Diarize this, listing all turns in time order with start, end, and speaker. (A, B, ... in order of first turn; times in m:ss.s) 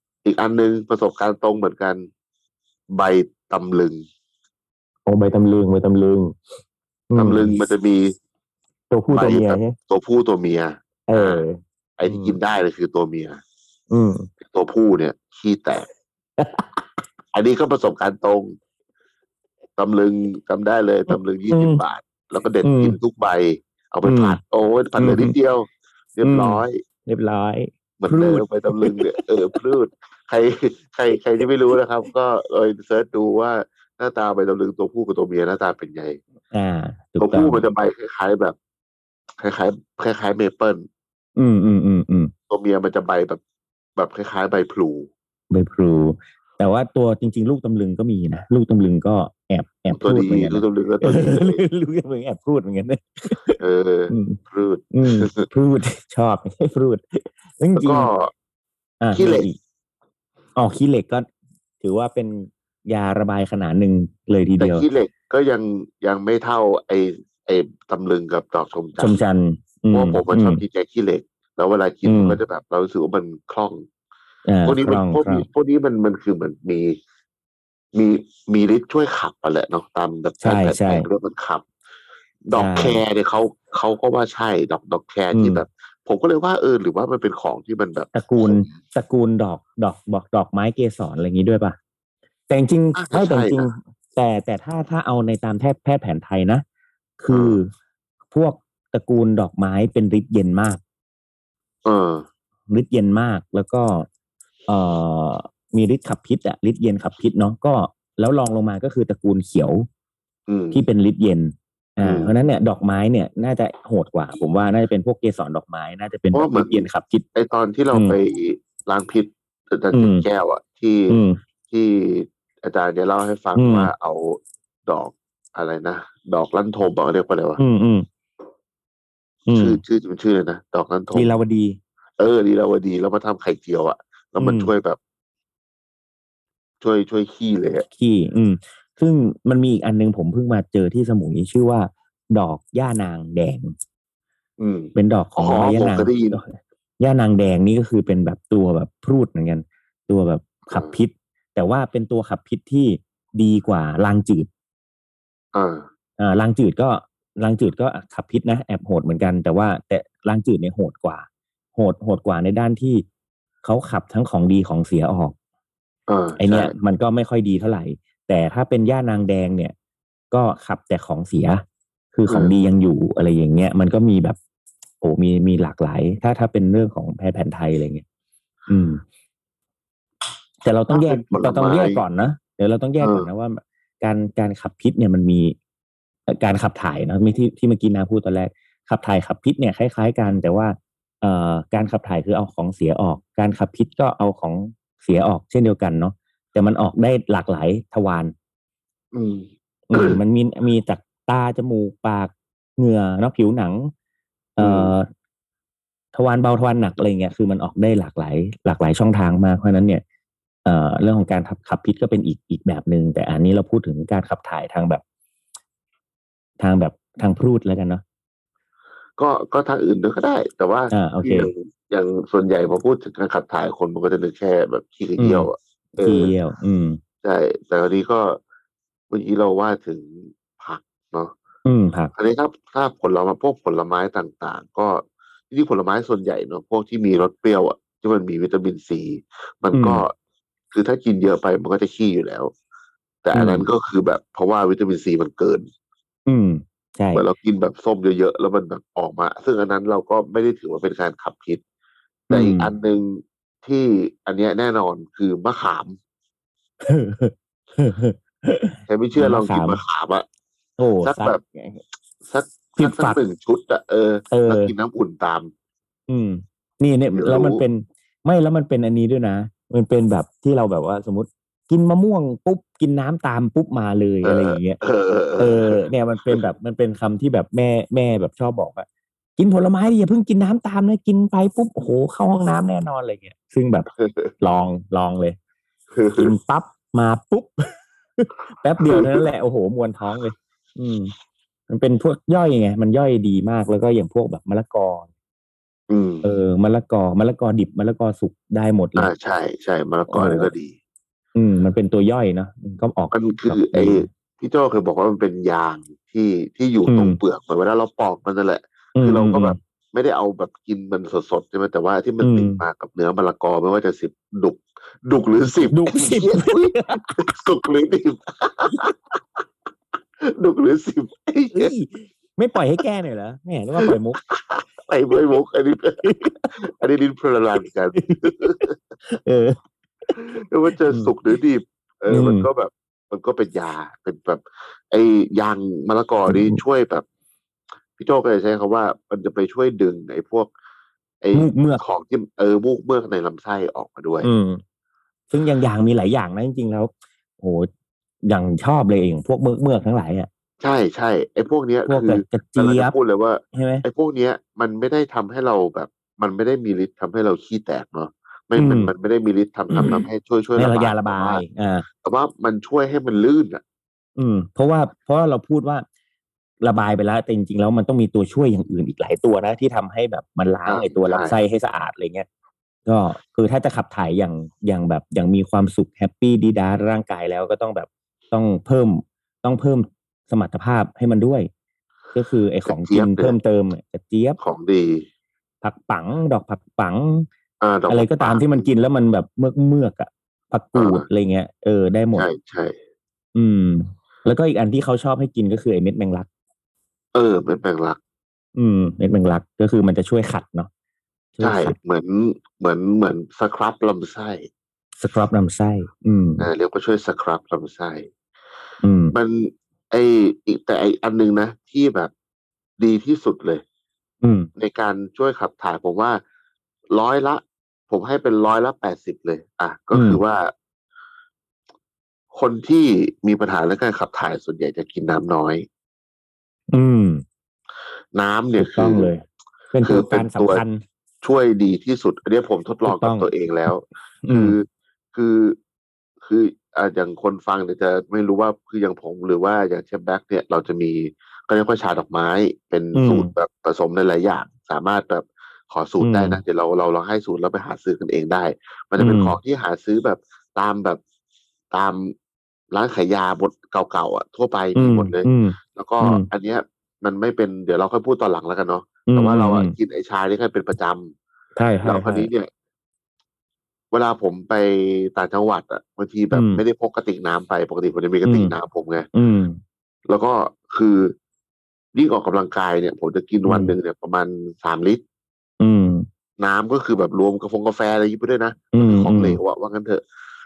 0:00.2-0:02.1 A
0:02.9-0:04.1 A
0:05.1-0:06.4 B
0:07.1-0:07.5 B
0:07.2-0:08.1 A
0:08.9-0:09.8 B
0:09.1-0:11.4 A
0:11.1-0:12.4 B
0:12.0-0:13.4 A
0:13.9-0:14.3 B
0:14.4-0:15.9 A
0:16.4-0:16.8 B
0:17.3-0:18.6 A
0:19.8-0:26.8 A
0:21.1-0:21.8 B
0:22.6-0:23.0 B
0:24.0-0:24.4 B
0:25.0-0:25.3 B
0:26.2-0:29.1 B
0:28.0-0:36.2 A
0:36.5-0:37.6 B
0:37.2-0:38.6 A
0:39.4-0:40.9 A
0:41.4-0:42.3 B
0:42.5-0:43.4 A
0:44.0-0:45.1 A
0:45.5-0:53.6 B
0:49.9-0:51.6 A
0:53.6-0:55.5 A
0:54.1-0:54.4 B
0:54.9-0:58.1 B
0:57.8-0:58.3 A
0:59.0-0:59.6 B
0:59.1-0:59.5 A
1:00.6-1:01.3 B
1:01.8-1:04.9 B
1:04.6-1:09.2 A
1:09.0-1:10.6 B
1:09.9-1:13.9 A
1:12.0-1:12.4 B
1:14.5-1:15.4 B
1:14.6-1:17.0 A
1:17.9-1:21.7 A
1:20.4-1:21.1 B
1:22.4-1:28.8 A
1:22.6-1:23.0 B
1:25.3-1:25.6 B
1:28.1-1:31.8 B
1:32.5-1:36.6 B
1:33.0-1:33.7 A
1:37.2-1:37.7 B
1:37.3-1:37.6 A
1:38.3-1:40.8 B
1:41.8-1:42.3 A
1:42.7-1:44.1 B
1:44.7-1:49.9 B
1:50.5-1:50.8 A
1:50.7-1:57.3 B
1:52.0-1:52.3 A
1:56.3-2:07.6 A
1:59.9-2:00.3 B
2:01.1-2:01.4 B
2:03.6-2:03.9 B
2:07.6-2:08.1 B
2:09.5-2:09.8 B
2:09.6-2:11.4 A
2:11.1-2:11.8 B
2:12.2-2:15.0 A
2:14.4-2:14.7 B
2:16.8-2:17.8 A
2:17.9-2:23.7 B
2:24.6-2:26.4 A
2:25.0-2:34.5 B
2:35.5-2:35.9 A
2:36.2-2:43.0 B
2:43.6-2:45.4 B
2:46.1-2:46.7 A
2:46.4-2:49.7 B
2:50.3-2:51.6 B
2:52.1-2:54.4 B
2:52.3-2:52.5 A
2:55.0-2:58.0 B
2:58.7-2:59.0 B
3:00.6-3:05.6 B
3:00.9-3:02.0 A
3:03.0-3:03.3 A
3:06.3-3:18.3 B
3:19.1-3:20.2 A
3:19.9-3:23.9 B
3:24.6-3:25.1 B
3:24.6-3:24.9 A
3:26.1-3:30.0 B
3:30.7-3:35.0 B
3:36.6-3:38.0 B
3:39.2-3:46.3 A
3:40.9-3:41.5 B
3:45.2-3:47.0 B
3:47.2-3:48.4 A
3:49.1-3:51.3 A
3:51.6-3:52.1 B
3:52.2-4:00.1 A
3:59.7-4:00.0 B
4:00.7-4:02.5 A
4:03.2-4:05.7 A
4:03.3-4:03.7 B
4:06.3-4:07.2 B
4:07.1-4:11.6 A
4:12.3-4:12.7 B
4:12.3-4:16.0 A
4:16.8-4:19.8 B
4:18.9-4:20.3 A
4:20.8-4:21.8 B
4:21.0-4:21.4 A
4:22.2-4:25.5 A
4:22.8-4:23.2 B
4:24.3-4:24.7 B
4:26.1-4:34.8 B
4:27.2-4:27.6 A
4:34.2-4:35.8 A
4:35.4-4:38.9 B
4:39.4-4:43.9 B
4:44.0-4:44.3 A
4:44.4-4:45.4 B
4:45.9-4:46.3 A
4:46.2-4:47.5 B
4:48.2-4:51.1 B
4:48.8-4:49.2 A
4:51.7-4:55.1 B
4:55.9-4:56.3 A
4:56.2-4:59.1 B
4:59.0-5:00.8 A
5:00.1-5:00.5 B
5:01.4-5:04.1 B
5:03.1-5:18.9 A
5:06.9-5:07.2 B
5:09.0-5:09.6 B
5:12.2-5:12.6 B
5:15.7-5:17.3 B
5:20.2-5:21.7 A
5:21.5-5:24.2 B
5:23.8-5:28.8 A
5:26.0-5:26.5 B
5:28.0-5:29.6 B
5:30.2-5:37.0 A
5:32.1-5:32.5 B
5:36.3-5:36.6 B
5:38.0-5:40.5 A
5:41.2-5:44.3 A
5:41.3-5:41.8 B
5:44.2-5:44.6 B
5:45.3-5:47.7 B
5:48.3-5:50.3 B
5:50.6-6:01.4 A
5:51.9-5:53.0 B
5:53.5-5:53.8 B
5:58.6-5:58.9 B
5:59.7-6:00.0 B
6:00.6-6:01.9 B
6:02.0-6:03.6 A
6:04.2-6:05.8 B
6:06.6-6:12.3 B
6:10.7-6:11.4 A
6:12.9-6:21.5 B
6:22.1-6:24.4 B
6:22.7-6:23.4 A
6:24.4-6:25.1 A
6:25.6-6:27.3 B
6:27.6-6:28.7 A
6:27.9-6:32.3 B
6:30.8-6:31.0 A
6:32.1-6:32.8 A
6:33.4-6:36.3 B
6:37.1-6:38.0 A
6:38.6-6:40.7 B
6:41.4-6:41.8 B
6:41.4-6:44.5 A
6:45.0-6:46.5 B
6:46.4-6:48.1 A
6:48.8-6:49.2 B
6:49.1-6:52.1 A
6:52.8-6:53.6 A
6:54.2-6:54.5 B
6:54.6-6:56.2 A
6:56.9-7:00.5 A
6:59.9-7:00.2 B
7:02.3-7:05.7 A
7:06.7-7:07.2 B
7:08.1-7:09.1 A
7:08.6-7:10.8 B
7:09.8-7:10.6 A
7:11.2-7:15.6 A
7:12.9-7:13.3 B
7:14.2-7:14.6 B
7:16.2-7:31.0 A
7:23.0-7:23.3 B
7:26.0-7:26.4 B
7:29.0-7:29.4 B
7:31.7-7:32.1 A
7:32.7-7:41.1 A
7:34.8-7:36.3 B
7:39.1-7:39.8 B
7:41.6-7:42.3 B
7:41.8-7:42.5 A
7:43.9-7:49.1 A
7:46.3-7:46.6 B
7:48.2-7:48.6 B
7:49.1-7:49.6 B
7:50.1-7:51.2 A
7:52.0-7:55.0 A
7:53.5-7:53.8 B
7:55.6-7:56.1 B
7:56.4-8:00.0 A
7:58.7-7:59.4 B